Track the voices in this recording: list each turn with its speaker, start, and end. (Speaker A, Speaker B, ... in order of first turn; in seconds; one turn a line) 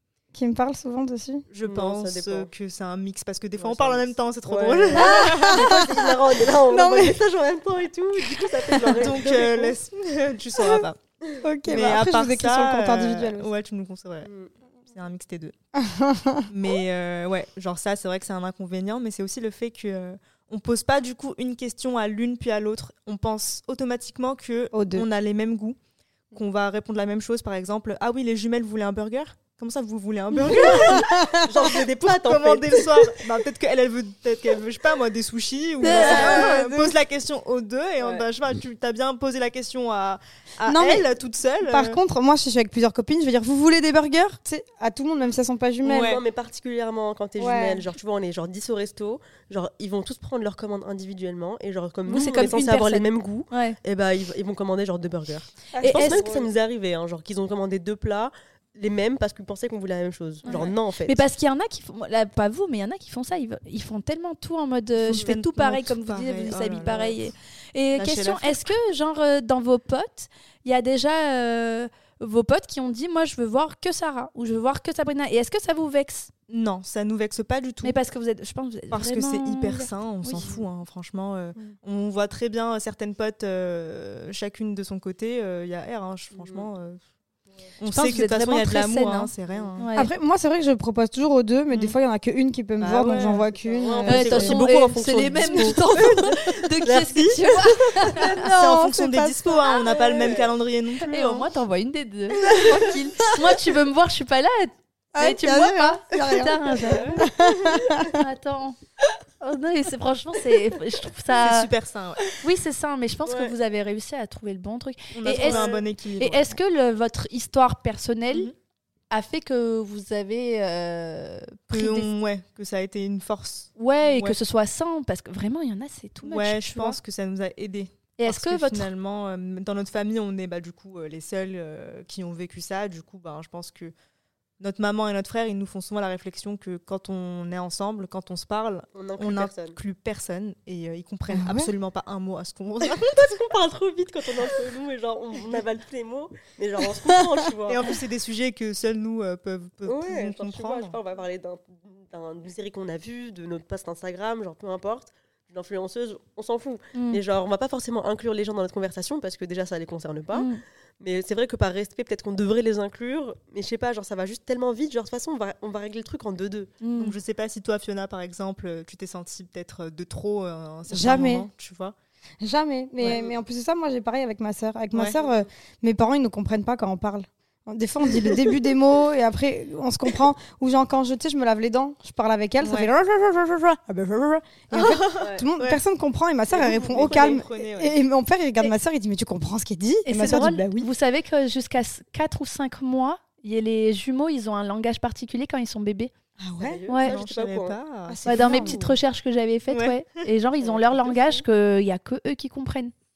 Speaker A: 0.3-1.4
Speaker B: 1.5-5.8
Speaker C: 1.6-2.5
Speaker C: 3.6-9.8
Speaker A: 5.0-6.1
Speaker A: 6.6-7.2
Speaker B: 8.8-11.0
Speaker A: 10.6-10.8
Speaker A: 11.4-13.5
Speaker B: 11.7-14.3
Speaker C: 14.2-14.5
Speaker B: 14.9-15.5
Speaker A: 15.7-16.5
Speaker B: 16.5-25.8
Speaker A: 24.7-25.1
Speaker B: 26.3-42.0
Speaker A: 30.5-31.5
Speaker C: 30.9-33.1
Speaker D: 35.8-36.5
Speaker A: 35.8-36.9
Speaker C: 35.9-36.4
Speaker C: 38.0-38.3
Speaker A: 40.6-41.1
Speaker A: 41.6-46.2
Speaker B: 45.8-46.2
Speaker C: 45.9-61.2
Speaker A: 47.4-47.9
Speaker D: 52.0-53.8
Speaker A: 55.8-56.4
Speaker D: 55.8-56.4
Speaker D: 60.4-76.3
Speaker B: 65.0-67.2
Speaker C: 65.1-65.3
Speaker B: 67.9-68.7
Speaker B: 76.5-78.0
Speaker D: 77.8-80.5
Speaker B: 78.9-87.0
Speaker C: 80.4-80.6
Speaker C: 86.3-86.7
Speaker B: 87.8-89.9
Speaker D: 87.8-90.1
Speaker A: 89.9-94.6
Speaker B: 92.8-93.4
Speaker C: 93.5-98.2
Speaker D: 94.0-98.5
Speaker B: 96.8-97.5
Speaker A: 98.2-99.6
Speaker B: 98.4-101.5
Speaker C: 99.7-100.5
Speaker D: 101.0-107.3
Speaker A: 105.1-108.2
Speaker C: 106.9-108.0
Speaker D: 108.0-108.8
Speaker D: 109.4-111.7
Speaker B: 111.3-112.3
Speaker D: 112.4-118.5
Speaker C: 113.2-113.5
Speaker B: 115.1-116.5
Speaker C: 115.3-115.8
Speaker D: 119.1-122.1
Speaker B: 121.7-124.3
Speaker D: 123.8-127.0
Speaker B: 126.2-133.9
Speaker D: 128.2-128.9
Speaker B: 134.6-143.3
Speaker C: 138.9-139.8
Speaker A: 141.3-141.7
Speaker C: 142.8-147.9
Speaker B: 147.7-150.9
Speaker C: 149.8-166.7
Speaker D: 156.9-157.2
Speaker D: 160.3-160.6
Speaker D: 166.8-167.1
Speaker B: 167.0-171.9
Speaker A: 170.9-171.5
Speaker A: 172.4-190.9
Speaker C: 173.0-173.4
Speaker B: 174.9-175.2
Speaker B: 182.6-182.9
Speaker B: 184.7-185.8
Speaker C: 185.2-185.4
Speaker B: 186.5-187.9
Speaker C: 187.0-187.4
Speaker D: 190.0-196.1
Speaker A: 196.4-196.8
Speaker C: 196.6-197.8
Speaker D: 196.9-197.2
Speaker B: 197.0-198.6
Speaker A: 198.1-198.9
Speaker D: 198.2-202.9
Speaker B: 199.7-200.3
Speaker C: 200.6-201.4